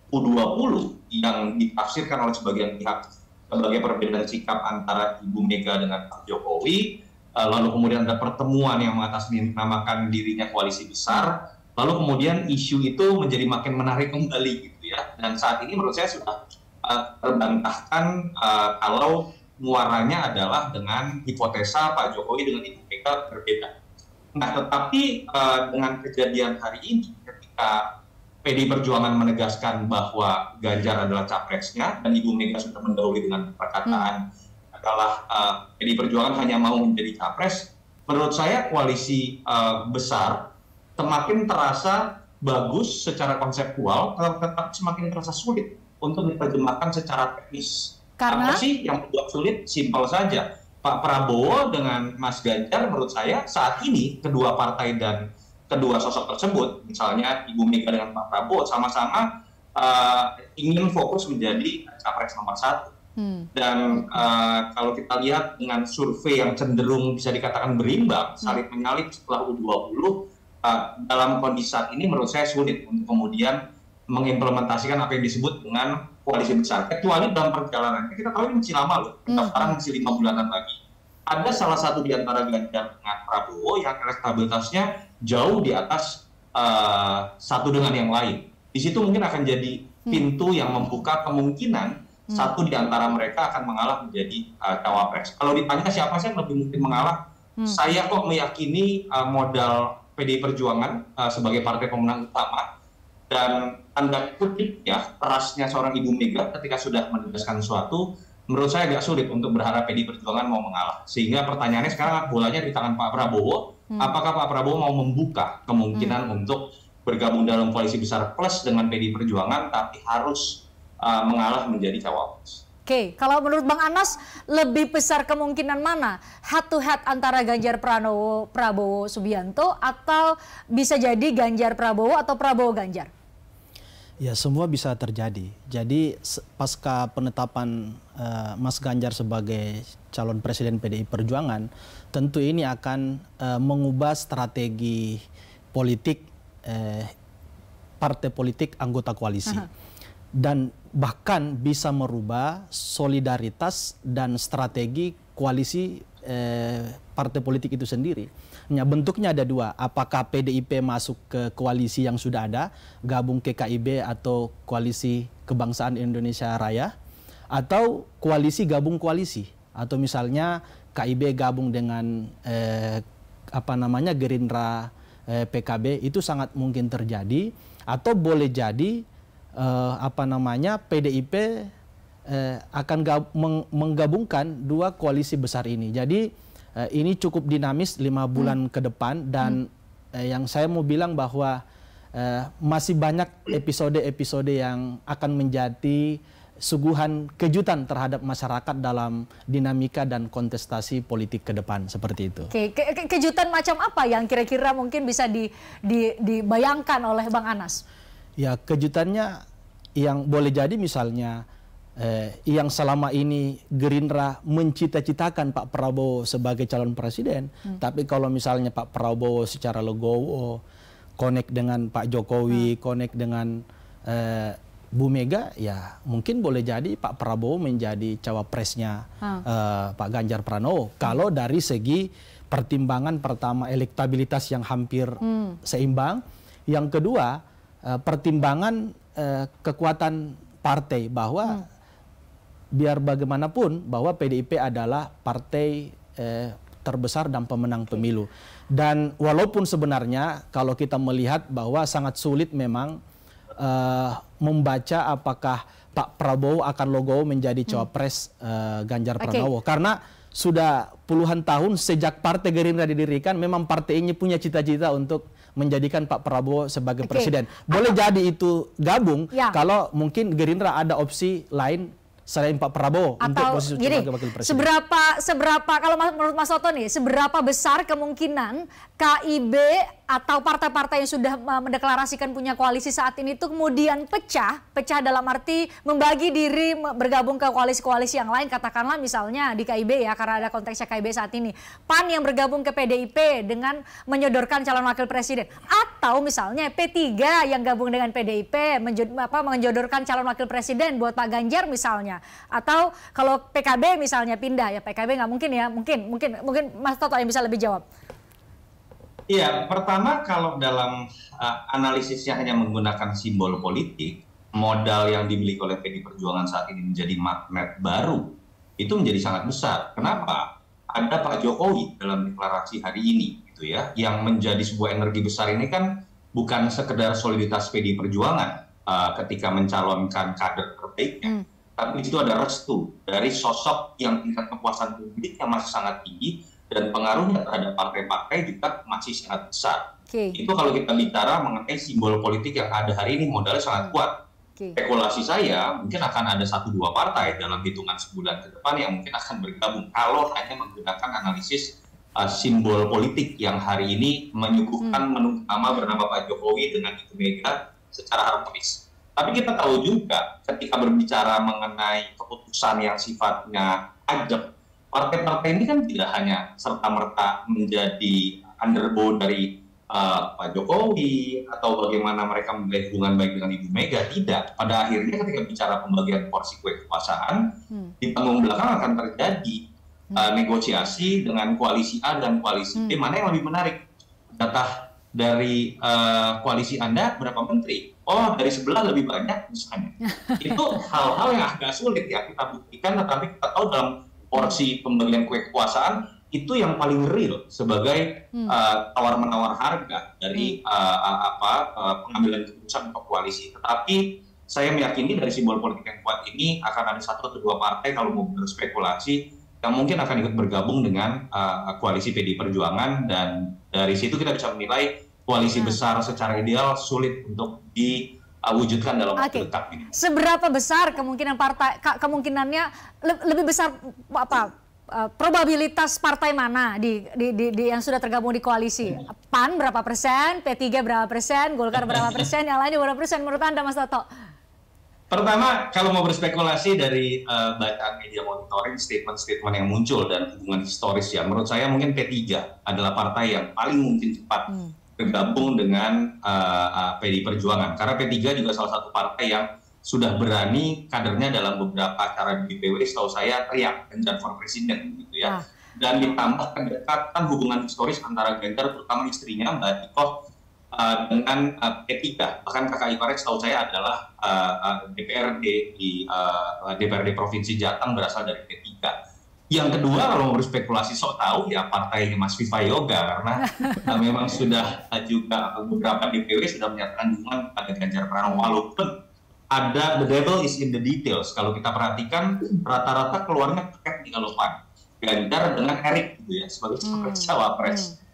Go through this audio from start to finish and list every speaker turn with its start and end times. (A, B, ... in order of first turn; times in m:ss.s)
0:00.1-0:23.7 A
0:24.4-0:27.8 A
0:28.4-0:34.2 A
0:34.8-0:40.4 A
0:41.0-0:59.3 A
0:48.2-0:48.6 B
0:59.8-1:02.9 A
1:03.2-1:04.2 B
1:03.6-1:13.6 A
1:14.1-1:42.6 A
1:19.3-1:19.8 B
1:43.3-2:02.6 A
1:56.0-1:56.2 B
2:02.9-2:13.1 B
2:14.2-2:25.2 C
2:25.7-2:27.1 C
2:28.0-2:29.7 C
2:30.4-2:46.9 C
2:47.5-2:53.0 C
2:53.6-2:59.0 C
2:59.6-3:01.7 C
3:02.3-3:06.2 C
3:06.8-3:11.6 C
3:12.2-3:22.5 C
3:22.5-3:27.8 B
3:28.4-3:29.4 C
3:30.0-3:31.4 C
3:32.0-3:40.6 C
3:41.2-4:01.6 C
3:55.2-3:55.6 B
4:02.8-4:13.0 C
4:13.6-4:34.7 C
4:19.2-4:19.5 B
4:27.0-4:28.0 B
4:33.2-5:07.8 B
5:09.3-5:39.8 A
5:20.0-5:20.3 B
5:40.1-5:40.4 B
5:40.4-5:44.1 A
5:44.8-6:17.4 A
6:18.0-6:19.6 A
6:20.2-6:23.8 A
6:22.8-6:23.0 B
6:24.3-6:59.9 A
6:30.0-6:30.6 B
6:59.2-7:14.0 B
7:15.1-7:40.1 A
7:24.5-7:24.7 B
7:40.7-7:48.9 A
7:49.5-7:58.9 A
7:58.2-7:58.6 B
7:59.5-8:07.9 A
8:06.9-8:07.9 B